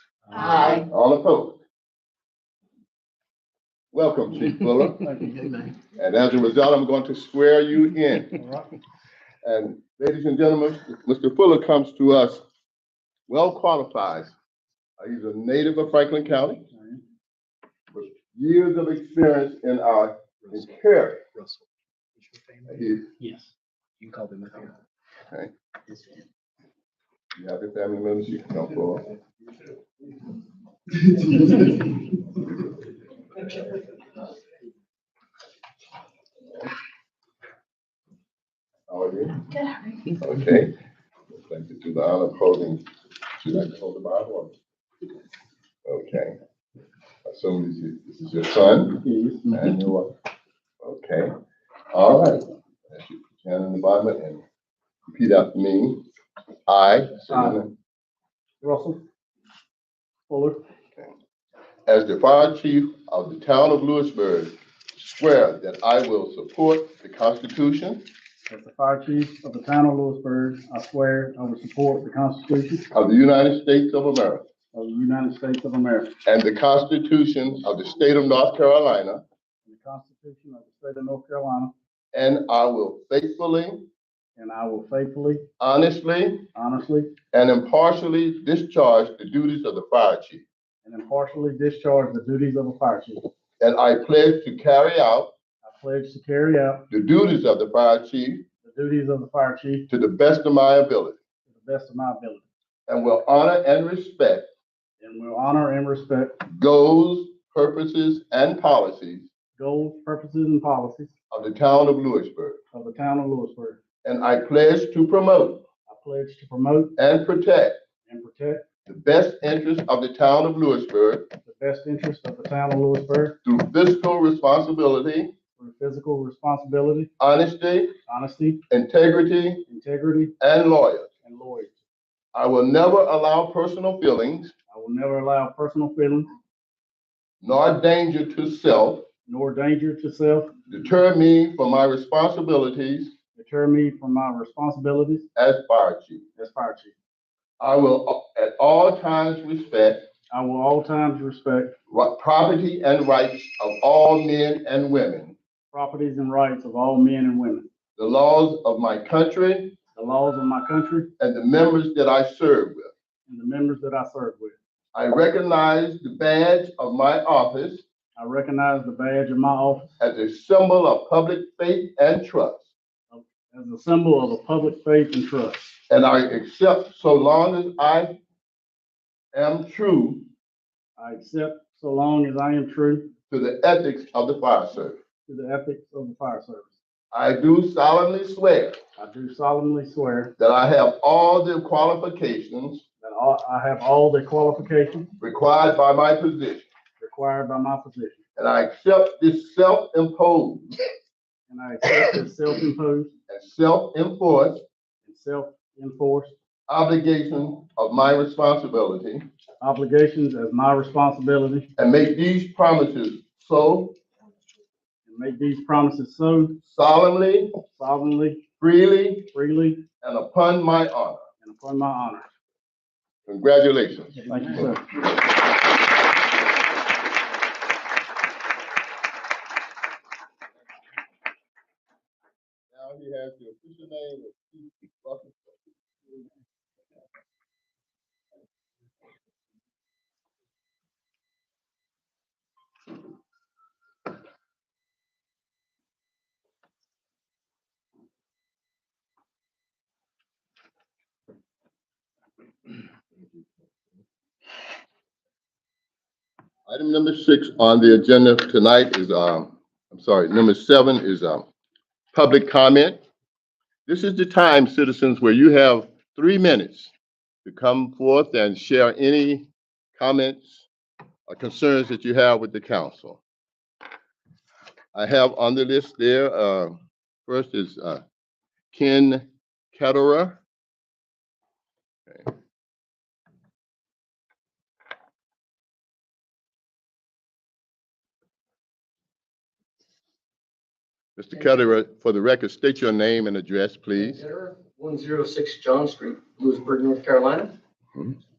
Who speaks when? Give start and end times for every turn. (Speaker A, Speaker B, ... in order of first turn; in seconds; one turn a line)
Speaker A: 0.3-0.7
Speaker B: 0.7-1.6
Speaker B: 3.9-5.1
Speaker C: 5.0-5.6
Speaker B: 6.0-8.3
Speaker C: 8.3-8.7
Speaker B: 9.4-12.4
Speaker B: 13.3-14.3
Speaker B: 15.0-16.7
Speaker C: 16.7-17.0
Speaker B: 17.9-21.2
Speaker A: 20.4-20.7
Speaker A: 21.3-21.6
Speaker A: 22.2-23.4
Speaker B: 22.7-23.1
Speaker A: 24.0-24.7
Speaker B: 27.4-29.1
Speaker B: 38.9-39.5
Speaker B: 40.1-40.7
Speaker B: 41.4-44.5
Speaker B: 45.9-46.4
Speaker B: 47.3-50.1
Speaker C: 49.0-49.7
Speaker B: 50.8-51.4
Speaker B: 51.9-54.4
Speaker B: 55.1-56.0
Speaker B: 56.7-57.7
Speaker C: 57.3-57.6
Speaker C: 58.6-59.0
Speaker C: 60.3-60.6
Speaker B: 61.9-68.1
Speaker C: 68.5-72.9
Speaker B: 72.9-74.4
Speaker C: 74.7-76.2
Speaker B: 76.3-79.2
Speaker C: 79.7-81.7
Speaker B: 82.1-83.9
Speaker C: 84.4-85.4
Speaker B: 85.6-86.5
Speaker C: 86.5-87.1
Speaker B: 87.3-90.5
Speaker C: 90.8-93.3
Speaker B: 93.6-95.3
Speaker C: 95.6-96.8
Speaker B: 96.9-98.5
Speaker C: 98.6-99.9
Speaker B: 99.9-101.2
Speaker C: 101.5-102.4
Speaker B: 102.9-104.5
Speaker C: 105.0-106.4
Speaker B: 106.5-109.3
Speaker C: 109.6-111.1
Speaker B: 111.3-112.6
Speaker C: 112.7-113.8
Speaker B: 114.0-115.6
Speaker C: 115.9-116.9
Speaker B: 117.0-117.8
Speaker C: 118.1-118.6
Speaker B: 118.9-121.3
Speaker C: 121.5-123.4
Speaker B: 123.5-125.3
Speaker C: 125.6-127.1
Speaker B: 127.2-128.0
Speaker C: 128.1-128.6
Speaker B: 128.7-129.7
Speaker C: 129.7-130.3
Speaker B: 130.4-131.1
Speaker C: 131.2-131.8
Speaker B: 132.3-134.5
Speaker C: 134.7-136.3
Speaker B: 137.4-139.1
Speaker C: 139.3-140.5
Speaker B: 140.7-143.1
Speaker C: 143.4-145.3
Speaker B: 145.4-146.2
Speaker C: 146.4-146.9
Speaker B: 147.6-150.1
Speaker C: 150.3-151.8
Speaker B: 151.9-155.4
Speaker C: 155.7-157.7
Speaker B: 158.0-159.8
Speaker C: 160.0-161.1
Speaker B: 161.2-162.9
Speaker C: 163.3-164.6
Speaker B: 164.9-167.8
Speaker C: 168.2-169.9
Speaker B: 170.0-172.7
Speaker C: 173.1-175.8
Speaker B: 175.9-178.2
Speaker B: 179.3-180.2
Speaker C: 181.0-183.1
Speaker B: 183.3-185.0
Speaker C: 185.3-186.8
Speaker B: 187.1-188.8
Speaker C: 189.0-190.3
Speaker B: 190.4-192.8
Speaker C: 193.0-195.1
Speaker B: 195.2-196.7
Speaker C: 197.0-198.2
Speaker B: 198.4-200.7
Speaker C: 201.5-203.1
Speaker B: 203.3-204.6
Speaker C: 205.1-206.3
Speaker B: 206.7-209.3
Speaker C: 209.6-211.7
Speaker B: 211.8-214.0
Speaker C: 215.1-216.6
Speaker B: 216.6-217.6
Speaker C: 217.7-218.4
Speaker B: 218.6-219.3
Speaker C: 219.3-219.8
Speaker B: 220.0-221.2
Speaker C: 221.4-222.3
Speaker B: 223.3-224.8
Speaker C: 224.2-224.8
Speaker B: 232.7-235.6
Speaker B: 256.7-261.5
Speaker B: 262.1-263.0
Speaker B: 263.9-266.9
Speaker B: 267.4-270.7
Speaker B: 271.3-273.2
Speaker B: 274.9-278.0
Speaker B: 278.7-280.4
Speaker B: 291.2-294.2
Speaker D: 293.9-297.6